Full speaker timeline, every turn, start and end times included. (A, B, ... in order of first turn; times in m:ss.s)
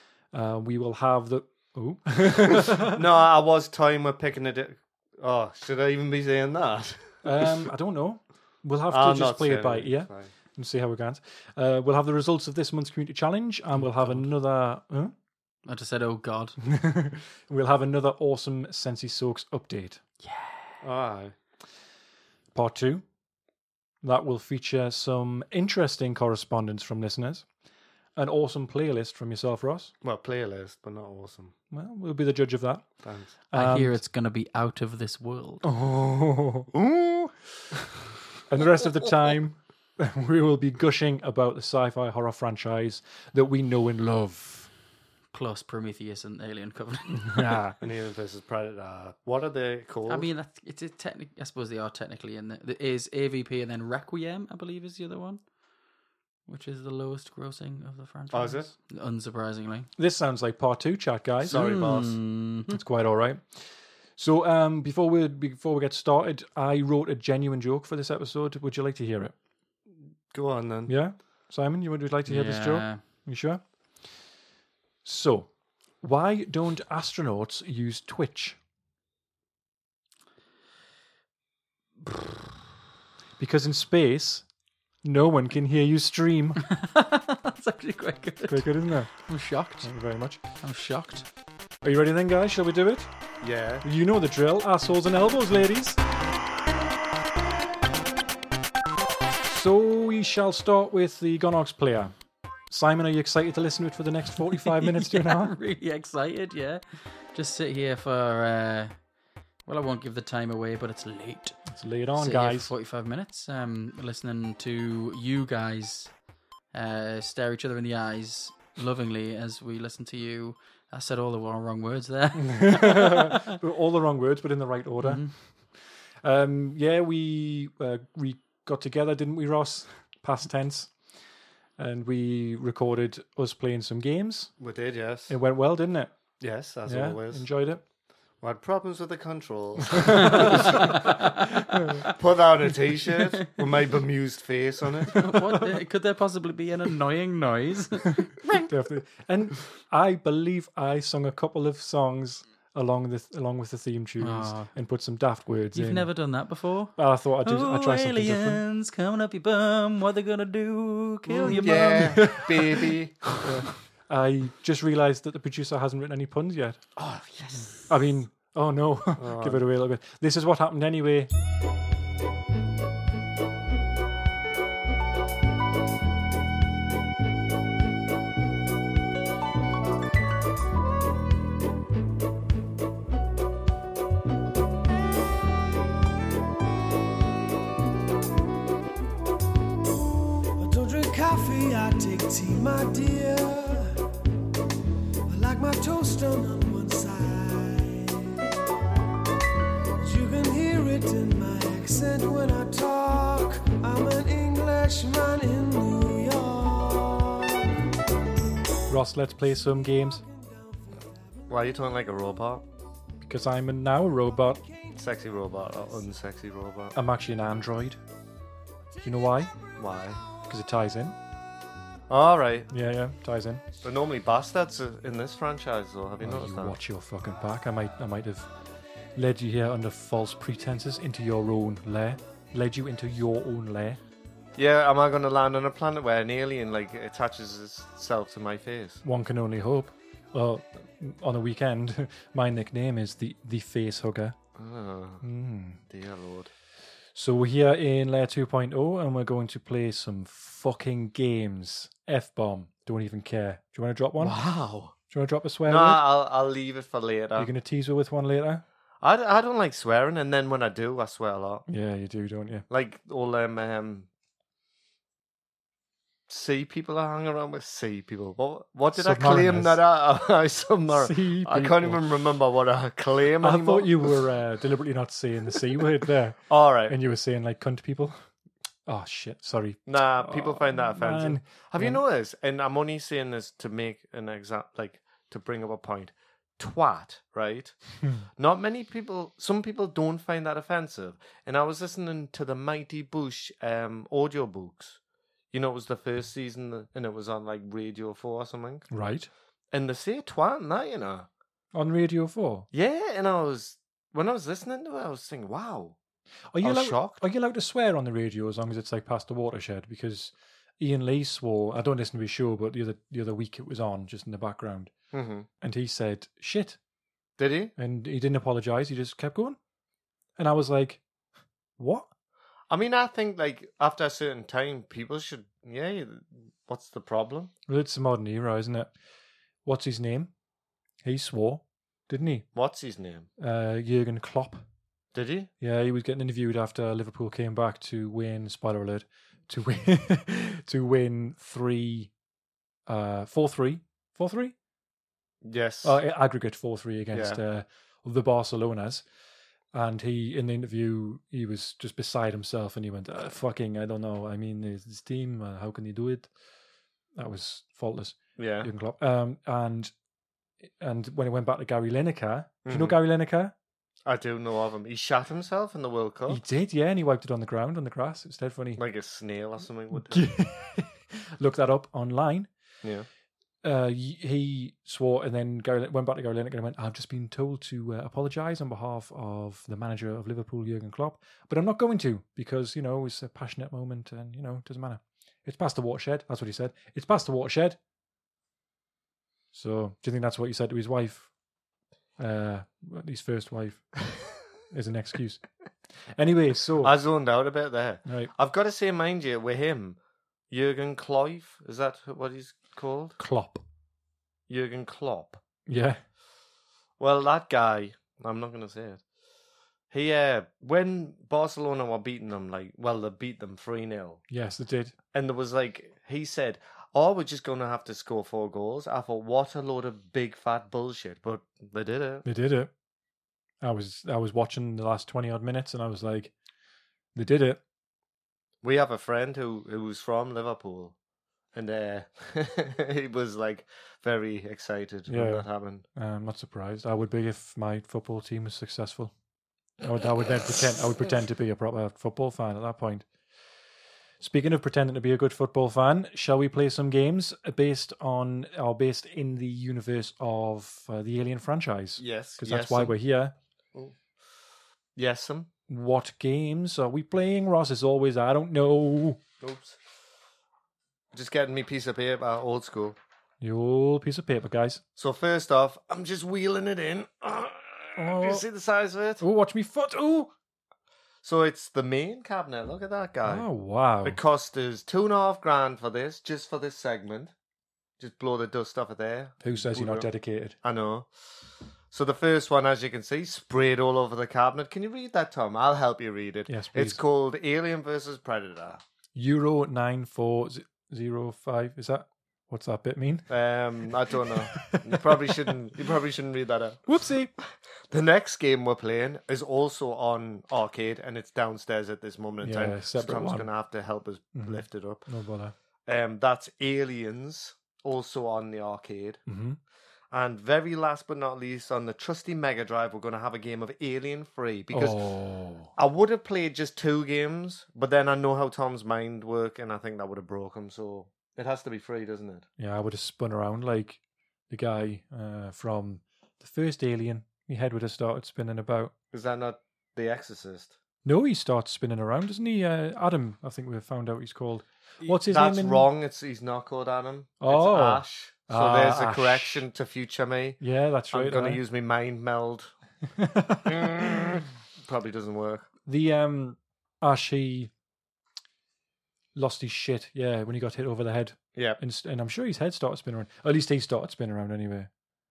0:00.3-0:03.0 A
0:02.7-0:07.4 B
0:07.2-0:15.2 A
0:08.9-0:10.3 B
0:14.0-0:14.2 C
0:15.6-0:16.6 C
0:16.6-0:20.0 A
0:20.2-0:20.8 C
0:20.8-0:21.4 B
0:22.5-0:23.0 A
0:24.0-0:27.5 A
0:28.2-0:29.9 A
0:30.0-0:31.5 B
0:31.7-0:34.0 A
0:33.0-0:33.3 B
0:33.5-0:35.6 C
0:35.6-0:37.3 A
0:38.5-0:44.7 A
0:45.3-0:47.5 C
0:47.2-0:47.8 A
0:47.8-0:50.3 B
0:50.1-0:55.4 C
0:56.5-0:59.9 C
0:58.3-0:58.7 B
1:00.0-1:01.6 A
1:01.4-1:02.2 B
1:01.4-1:02.8 C
1:02.7-1:09.4 A
1:10.3-1:11.0 B
1:10.9-1:13.6 A
1:12.3-1:13.0 C
1:15.0-1:18.6 A
1:23.4-1:24.5 A
1:25.0-1:26.6 A
1:26.7-1:29.9 C
1:28.5-1:29.3 A
1:29.8-1:30.4 A
1:30.6-1:31.2 C
1:31.8-1:33.1 A
1:33.4-1:33.8 B
1:33.8-1:36.0 A
1:39.4-1:42.1 A
1:42.7-1:45.6 A
1:44.6-1:49.0 C
1:49.7-1:56.2 C
1:51.7-1:52.7 A
1:56.7-2:03.4 C
2:02.4-2:11.0 A
2:05.0-2:05.3 C
2:11.8-2:14.5 A
2:14.6-2:15.3 B
2:15.3-2:16.2 A
2:16.4-2:17.5 B
2:16.8-2:17.8 A
2:18.4-2:20.8 B
2:20.0-2:20.9 A
2:20.5-2:21.3 C
2:21.7-2:22.0 A
2:22.1-2:25.2 B
2:25.2-2:28.7 C
2:28.7-2:36.1 A
2:34.2-2:34.7 C
2:35.7-2:42.4 C
2:37.0-2:38.6 A
2:41.3-2:43.3 B
2:41.4-2:42.8 A
2:43.4-2:46.8 A
2:47.0-2:47.9 B
2:47.9-2:51.3 A
2:49.2-2:49.6 B
3:10.6-3:14.0 D
3:15.3-3:18.5 D
3:20.0-3:27.6 D
3:28.9-3:30.2 A
3:31.5-3:32.6 B
3:33.2-3:34.6 A
3:35.0-3:37.0 B
3:36.9-3:38.0 A
3:39.0-3:39.5 A
3:39.8-3:40.2 B
3:40.5-3:41.2 A
3:42.1-3:42.7 B
3:42.7-3:43.6 A
3:43.8-3:46.8 B
3:46.2-3:48.5 A
3:49.2-3:54.0 A
3:54.6-3:59.0 B
3:59.0-4:04.4 A
4:04.6-4:05.2 B
4:05.2-4:05.8 A
4:05.9-4:06.5 B
4:07.2-4:14.4 A
4:14.2-4:14.9 B
4:15.1-4:16.0 A
4:15.7-4:17.5 B
4:17.4-4:18.6 A
4:19.0-4:21.6 B
4:21.7-4:22.7 A
4:22.7-4:24.1 B
4:26.3-4:34.1 B
4:28.9-4:29.8 A
4:30.9-4:32.0 A
4:33.4-4:38.3 A
4:36.5-4:37.0 B
4:38.9-4:42.0 A
4:39.9-4:55.0 B
4:55.5-4:58.9 B
4:58.9-4:59.3 A
4:59.7-5:01.3 B
5:01.7-5:02.7 A
5:02.7-5:06.0 B
5:06.5-5:15.0 A
5:06.6-5:07.2 B
5:15.1-5:15.5 B
5:15.6-5:16.8 A
5:17.4-5:17.7 B
5:17.8-5:19.6 A
5:20.4-5:21.0 A
5:21.8-5:22.1 A
5:22.7-5:27.5 B
5:27.7-5:28.9 A
5:29.6-5:30.3 A
5:31.0-5:32.5 A
5:32.5-5:33.3 B
5:33.4-5:34.6 A
5:35.1-5:35.5 B
5:35.6-5:42.1 A
5:42.9-5:44.6 A
5:45.4-5:46.0 B
5:45.8-5:49.0 A
5:47.1-5:47.4 B
5:49.7-5:56.3 A
5:57.2-5:59.9 A
5:58.4-5:58.7 B
6:00.6-6:03.5 A
6:02.6-6:03.0 B
6:04.0-6:06.4 B
6:06.3-6:08.8 A
6:08.8-6:10.3 B
6:09.9-6:12.5 A
6:12.8-6:13.1 B
6:13.6-6:27.8 A
6:29.5-6:31.3 A
6:32.2-6:35.5 A
6:36.2-6:37.0 A
6:36.8-6:40.0 B
6:38.1-6:38.3 A
6:40.5-6:43.2 B
6:43.2-6:43.6 A
6:44.5-6:45.4 B
6:45.7-6:46.0 A
6:47.0-6:49.0 B
6:49.9-6:54.2 B
6:54.3-6:54.9 A
6:55.1-7:02.2 B
7:02.2-7:02.7 A
7:03.6-7:06.3 A
7:07.2-7:07.6 A
7:08.6-7:11.0 B
7:11.5-7:15.8 B
7:15.1-7:19.1 A
7:19.8-7:23.1 A
7:24.2-7:33.3 A
7:32.0-7:33.0 B
7:35.0-7:35.5 B
7:35.7-7:39.2 A
7:39.4-7:39.8 B
7:41.1-7:43.0 B
7:43.4-7:44.8 A
7:45.0-7:49.2 B
7:48.0-7:48.5 A
7:49.2-7:50.3 A
7:51.2-7:53.5 B
7:53.2-7:54.2 A
7:54.0-7:57.3 B
7:58.0-8:00.1 B
7:59.4-8:00.6 A
8:00.6-8:01.1 B
8:01.9-8:08.8 B
8:06.5-8:07.0 A
8:09.2-8:13.3 A
8:13.3-8:25.0 B
8:14.3-8:15.0 A
8:16.9-8:17.3 A
8:22.4-8:23.5 A
8:24.4-8:25.5 A
8:25.9-8:29.2 B
8:29.3-8:29.6 A
8:30.1-8:35.0 B
8:34.7-8:35.7 A
8:35.8-8:42.4 B
8:42.6-8:48.9 A
8:49.1-8:50.8 B
8:51.0-8:55.9 A
8:55.0-9:02.7 B
8:57.4-8:59.6 A
9:00.6-9:01.6 A
9:03.2-9:04.4 A
9:03.7-9:05.7 B
9:05.9-9:07.7 A
9:09.4-9:14.9 A
9:11.6-9:11.8 B